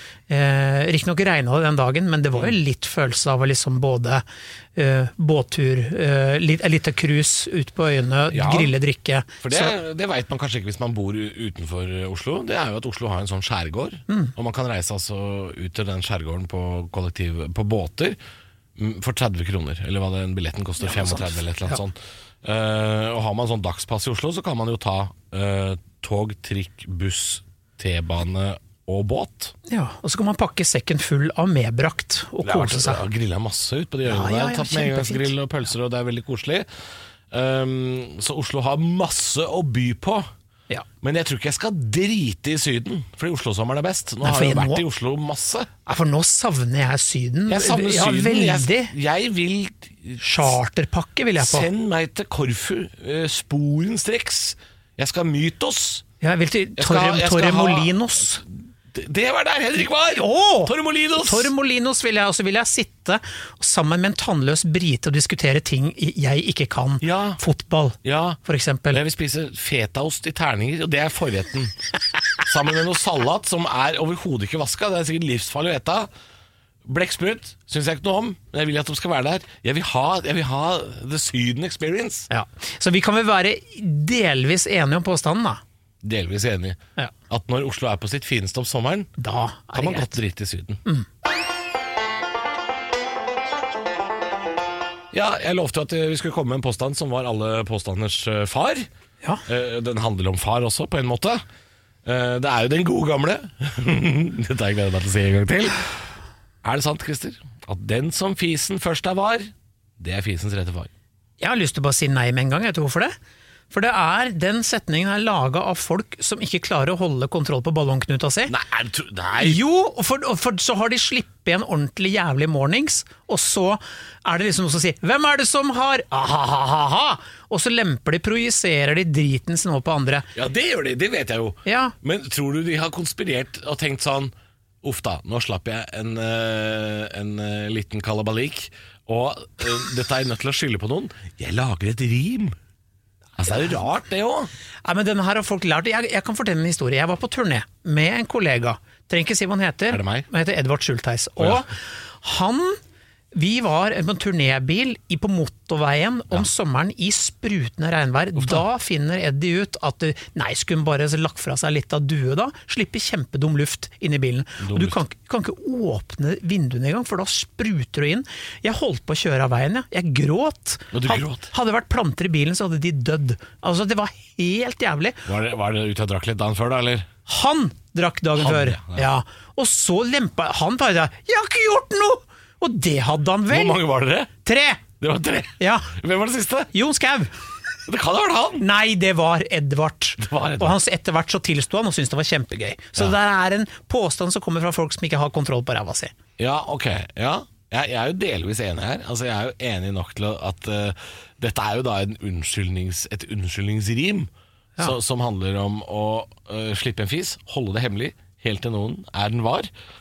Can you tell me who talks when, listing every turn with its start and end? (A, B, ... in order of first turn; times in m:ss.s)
0:00.3-0:04.2 A
0:04.8-0:09.7 A
0:08.3-0:08.8 B
0:09.4-0:18.2 B
0:18.8-0:29.5 B
0:20.8-0:21.8 A
0:29.7-0:33.0 A
0:32.4-0:36.7 B
0:34.0-0:35.3 A
0:37.3-0:40.3 B
0:41.0-0:45.7 B
0:44.2-0:44.8 A
0:45.8-0:48.9 A
0:47.5-0:50.6 B
0:50.2-0:51.7 A
0:51.4-0:56.0 B
0:56.2-0:58.4 A
0:56.8-0:58.0 B
0:58.9-1:01.5 B
1:00.1-1:09.0 A
1:07.0-1:07.4 B
1:08.0-1:08.4 B
1:08.9-1:11.7 B
1:12.4-1:16.1 B
1:16.8-1:22.3 B
1:22.3-1:25.6 A
1:26.0-1:29.1 B
1:29.2-1:30.1 A
1:29.7-1:30.8 B
1:35.1-1:38.9 B
1:39.4-1:41.4 B
1:42.0-1:46.0 B
1:46.6-1:50.9 B
1:51.4-1:53.1 A
1:53.7-1:58.5 A
1:58.5-1:59.6 B
1:59.4-2:10.3 A
2:10.3-2:22.6 B
2:11.6-2:12.0 A
2:23.4-2:24.5 B
2:24.8-2:32.8 A
2:29.9-2:30.3 B
2:33.3-2:55.3 A
2:38.4-2:38.6 B
2:44.6-2:45.0 B
2:50.9-2:51.5 B
2:55.2-2:57.1 B
2:57.3-3:03.8 A
2:58.4-2:59.1 B
3:03.5-3:04.3 B
3:04.4-3:04.8 A
3:05.0-3:06.7 B
3:05.6-3:05.9 A
3:06.7-3:07.3 A
3:07.9-3:08.6 B
3:08.6-3:16.1 A
3:10.2-3:10.8 B
3:16.4-3:29.7 B